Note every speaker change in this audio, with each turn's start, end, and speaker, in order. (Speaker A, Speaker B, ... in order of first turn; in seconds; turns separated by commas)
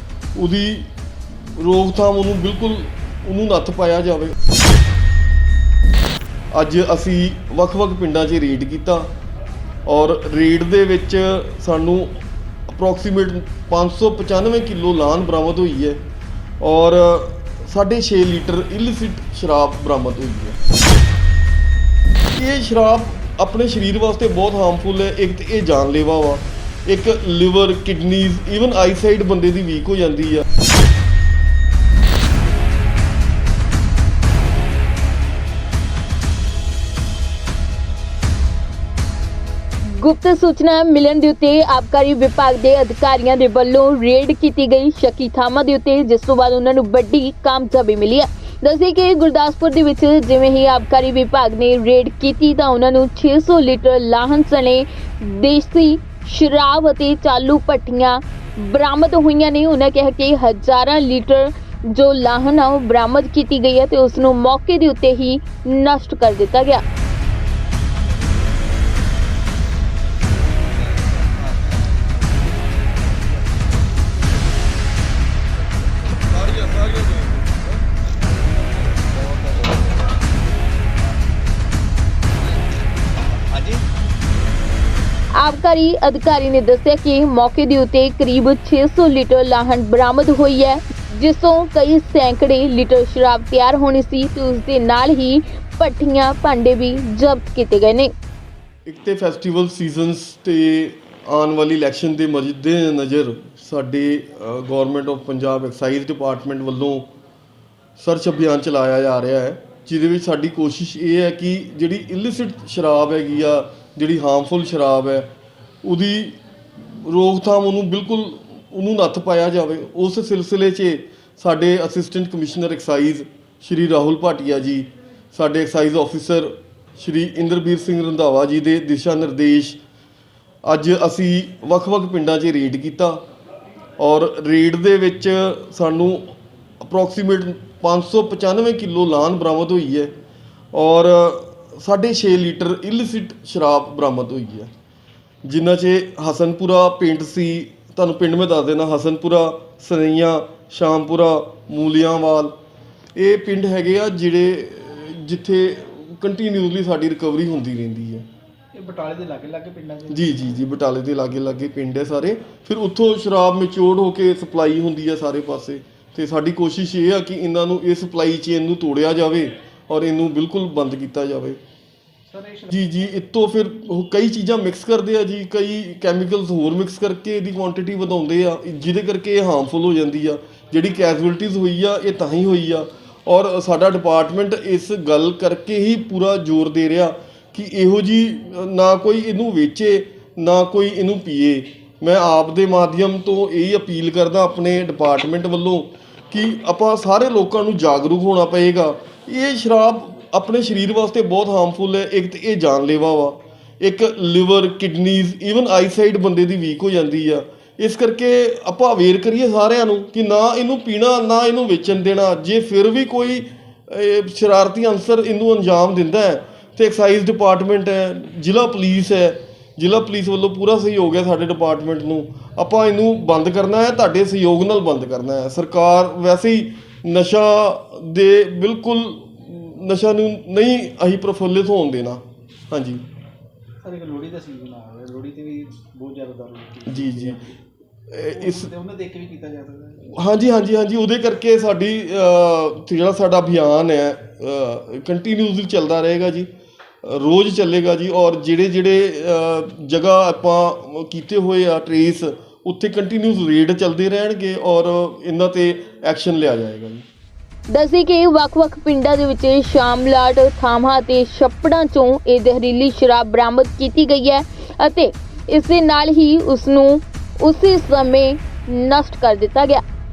Speaker A: 0.3-0.9, Speaker A: 1.6-4.4, Speaker A: 6.5-9.1, Speaker A: 9.9-12.1, Speaker A: 12.7-16.0, Speaker A: 16.6-20.6, Speaker A: 22.3-30.5, Speaker B: 40.0-66.8, Speaker A: 76.3-77.6, Speaker B: 85.4-98.1, Speaker A: 98.9-107.1, Speaker A: 108.0-115.3, Speaker A: 115.8-129.8, Speaker A: 130.6-133.2, Speaker A: 134.0-140.1, Speaker A: 140.7-144.7, Speaker A: 145.4-152.6, Speaker A: 153.2-158.3, Speaker C: 158.7-160.4, Speaker A: 160.1-171.6, Speaker C: 172.3-172.9, Speaker A: 172.7-233.0, Speaker C: 233.8-237.6, Speaker A: 236.9-237.4, Speaker A: 238.1-238.7, Speaker C: 238.3-240.2, Speaker A: 240.1-246.5, Speaker A: 247.0-257.0, Speaker B: 257.7-269.8